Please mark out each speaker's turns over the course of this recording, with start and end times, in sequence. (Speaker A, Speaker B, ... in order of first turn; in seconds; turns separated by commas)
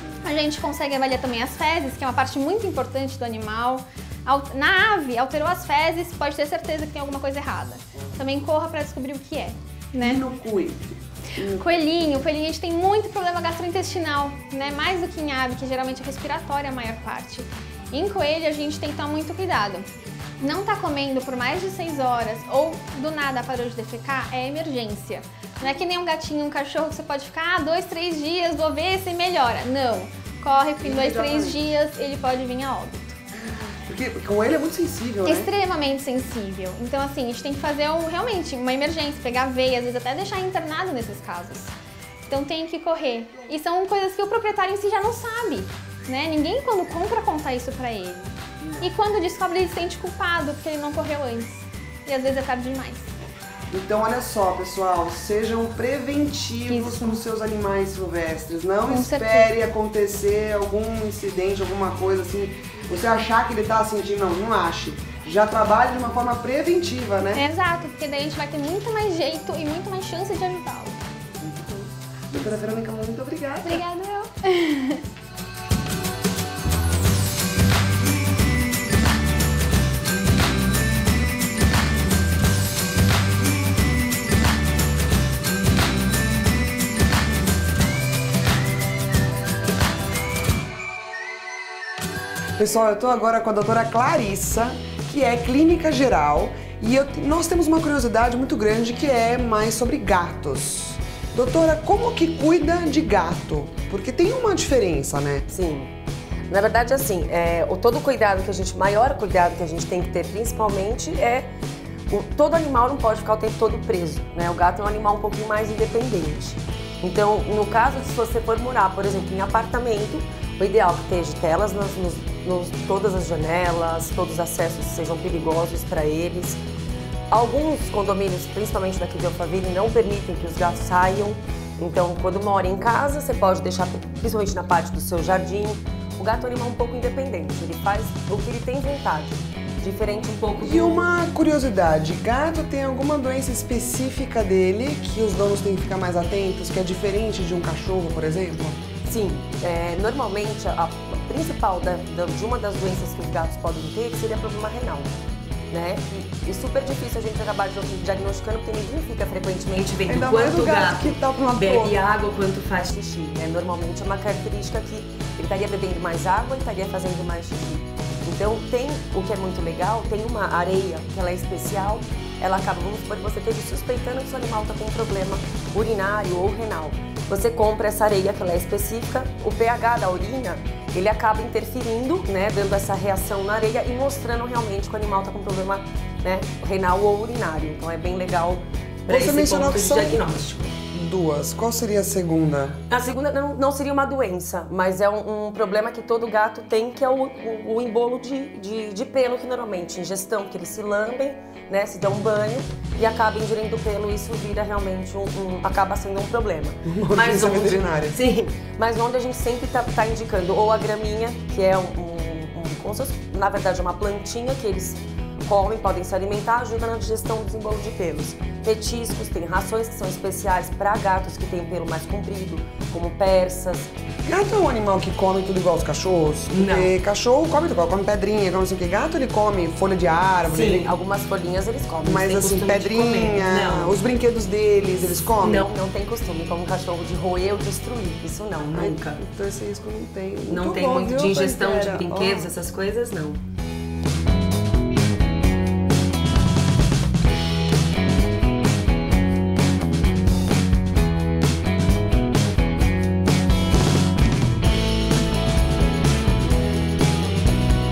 Speaker A: 0.2-10.2, Speaker B: 10.0-10.8, Speaker B: 11.4-12.0, Speaker A: 11.5-19.9, Speaker A: 20.4-33.2, Speaker B: 30.8-31.7, Speaker B: 33.6-35.5, Speaker A: 35.2-41.7, Speaker A: 42.2-53.1, Speaker B: 48.6-48.9, Speaker B: 53.7-67.4, Speaker A: 56.7-57.2, Speaker A: 58.9-59.5, Speaker A: 67.3-71.0, Speaker B: 71.4-73.8, Speaker A: 73.6-75.0, Speaker B: 92.6-105.5, Speaker C: 105.5-105.9, Speaker C: 106.5-111.5, Speaker C: 112.1-126.6, Speaker C: 127.3-141.0, Speaker B: 140.6-148.8, Speaker C: 149.1-155.1, Speaker C: 155.7-190.6, Speaker B: 160.1-161.9, Speaker B: 189.1-190.2, Speaker B: 190.9-192.8, Speaker C: 192.9-223.9, Speaker B: 206.8-208.2, Speaker B: 224.2-230.9, Speaker C: 226.5-226.9, Speaker C: 230.5-233.9, Speaker B: 232.0-235.7, Speaker C: 235.4-239.2, Speaker B: 238.7-242.5, Speaker C: 240.5-243.4